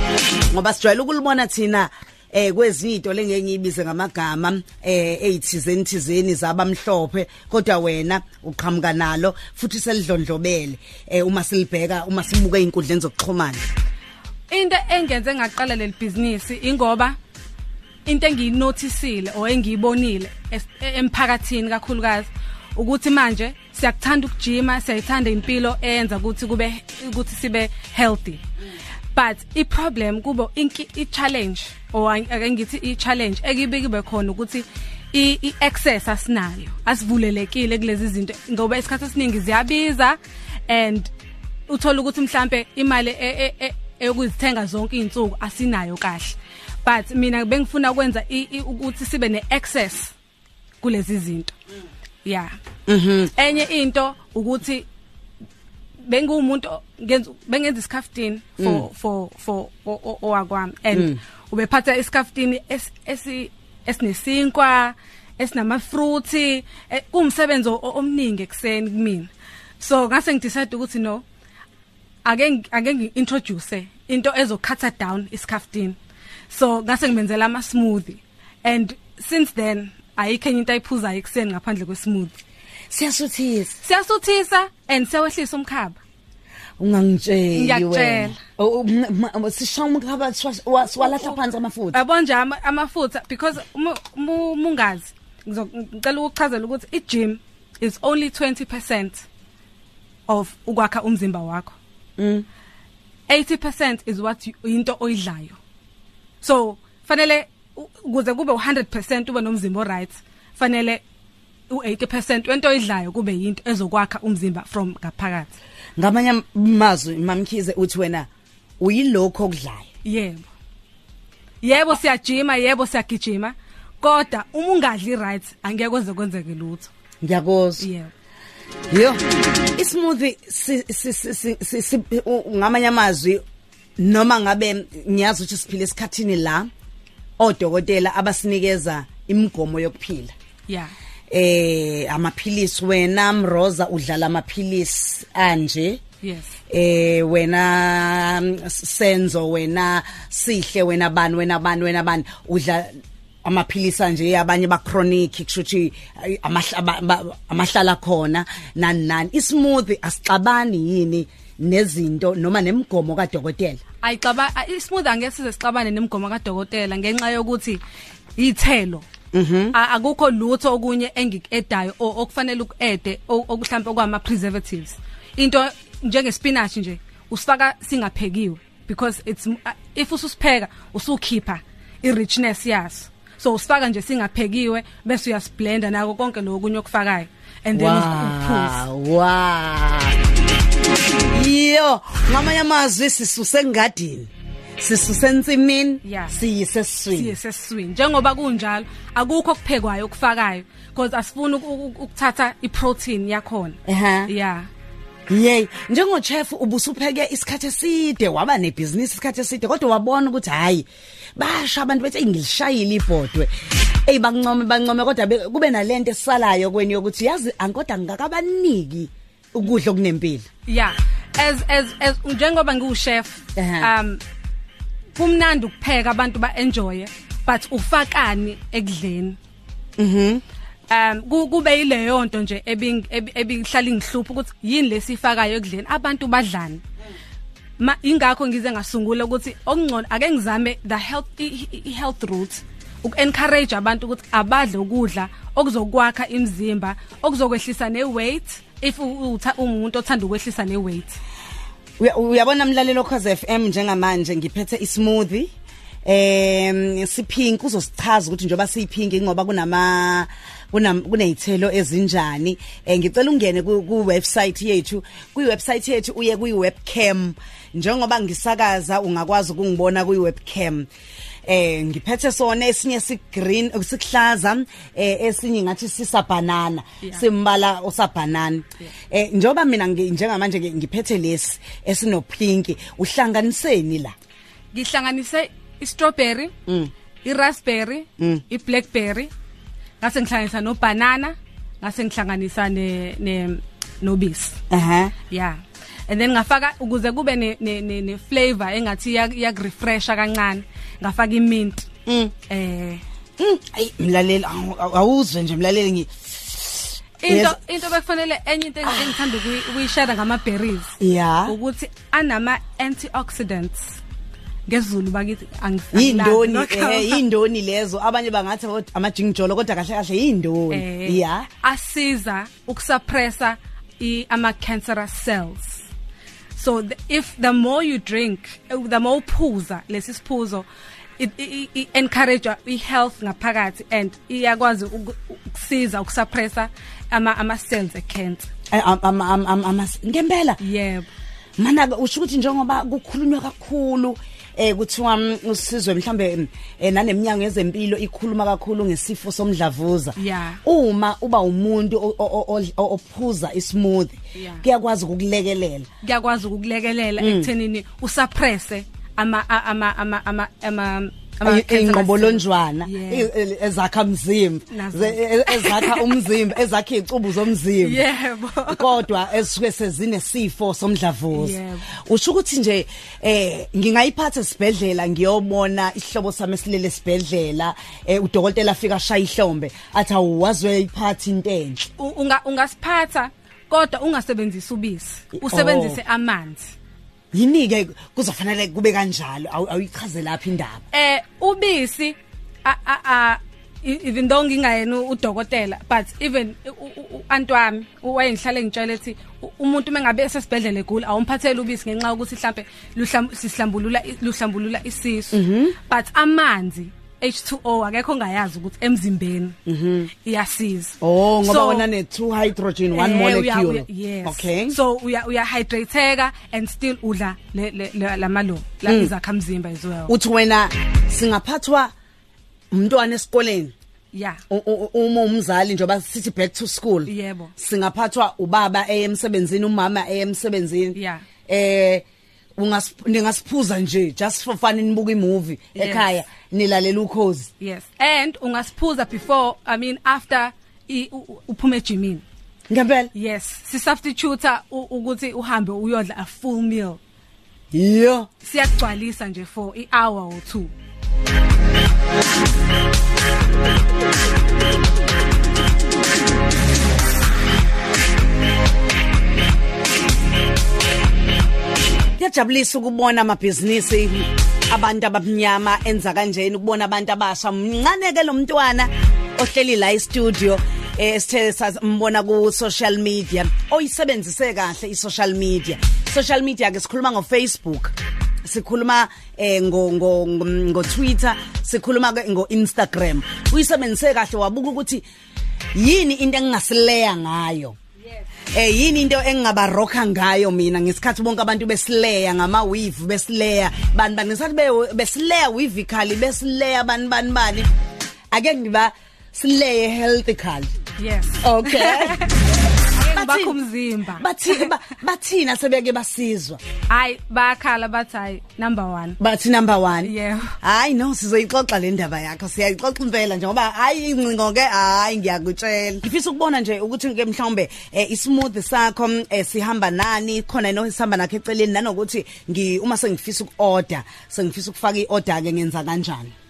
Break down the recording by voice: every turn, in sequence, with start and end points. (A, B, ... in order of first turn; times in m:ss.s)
0:00.5-0:13.7 A
0:14.5-0:17.2 B
0:18.0-0:28.4 B
0:29.1-0:41.1 B
0:41.7-0:50.1 B
0:50.8-0:51.5 B
0:52.2-0:52.5 B
0:52.9-0:53.3 A
0:53.4-0:54.8 B
0:56.0-1:11.2 B
0:58.6-0:58.8 A
1:00.9-1:01.2 A
1:12.2-1:16.0 B
1:16.5-1:22.4 B
1:22.9-1:23.8 A
1:23.8-1:26.0 B
1:26.8-1:32.0 A
1:27.5-1:28.4 B
1:31.0-1:31.4 B
1:31.9-1:39.2 B
1:40.3-1:41.7 B
1:42.2-1:42.4 A
1:43.3-1:45.6 B
1:46.4-1:51.0 B
1:51.7-1:55.6 B
1:56.0-1:58.3 A
1:58.8-1:59.9 A
2:00.0-2:00.5 B
2:01.6-2:06.9 B
2:07.2-2:07.8 A
2:07.8-2:08.1 B
2:08.9-2:09.2 A
2:09.7-2:13.4 A
2:14.0-2:16.7 A
2:17.4-2:20.3 A
2:20.7-2:20.9 B
2:21.3-2:26.0 A
2:26.2-2:26.6 B
2:26.7-2:43.8 A
2:44.0-2:47.8 B
2:48.4-2:49.0 B
2:49.3-2:49.7 A
2:49.7-3:08.8 B
3:07.7-3:10.2 A
3:11.3-3:17.3 A
3:16.0-3:16.3 B
3:17.1-3:24.7 B
3:23.8-3:24.3 A
3:25.3-3:33.5 A
3:34.0-3:40.5 A
3:40.7-3:44.2 B
3:43.6-3:43.9 A
3:45.2-3:49.4 B
3:50.0-3:50.4 A
3:50.9-3:56.8 B
3:57.8-4:11.2 B
4:12.0-4:15.5 A
4:16.0-4:30.9 A
4:31.4-4:44.1 A
4:44.7-4:46.5 B
4:47.2-4:49.3 B
4:50.0-4:54.6 B
4:54.7-4:55.1 A
4:55.3-5:01.9 B
5:02.0-5:02.3 A
5:02.5-5:03.0 B
5:03.4-5:07.6 A
5:07.2-5:14.0 B
5:11.0-5:11.5 A
5:14.7-5:17.2 B
5:15.9-5:21.5 A
5:20.7-5:25.9 B
5:26.5-5:30.7 B
5:31.2-5:38.5 B
5:38.7-5:40.6 A
5:40.6-5:41.1 B
5:41.6-5:55.9 A
5:50.2-5:50.6 B
5:54.3-5:54.6 B
5:56.0-6:03.3 B
5:57.2-5:57.5 A
6:01.4-6:08.0 A
6:04.7-6:06.2 B
6:07.8-6:09.0 B
6:08.7-6:21.8 A
6:11.3-6:11.9 B
6:22.0-6:26.7 B
6:25.3-6:26.0 A
6:27.3-6:30.8 A
6:30.9-6:49.6 B
6:45.3-6:45.7 A
6:49.6-6:50.1 A
6:50.2-6:51.8 B
6:51.0-6:54.8 A
6:52.9-7:00.1 B
6:58.8-6:59.1 A
7:00.1-7:01.9 A
7:02.7-7:03.7 A
7:04.1-7:04.4 B
7:04.5-7:12.0 A
7:07.1-7:07.5 B
7:10.9-7:11.2 B
7:12.6-7:17.5 A
7:15.8-7:16.1 B
7:17.6-7:22.2 B
7:22.7-7:23.1 A
7:23.1-7:27.0 B
7:27.7-7:28.3 A
7:28.4-7:30.7 B
7:42.2-8:05.0 A
8:05.7-8:07.8 A
8:08.5-8:17.7 A
8:18.3-8:20.7 A
8:21.0-8:22.4 B
8:21.4-8:22.3 A
8:22.9-8:24.7 B
8:23.0-8:23.6 A
8:24.2-8:26.6 A
8:26.9-8:29.2 B
8:29.2-8:46.3 A
8:30.0-8:30.5 B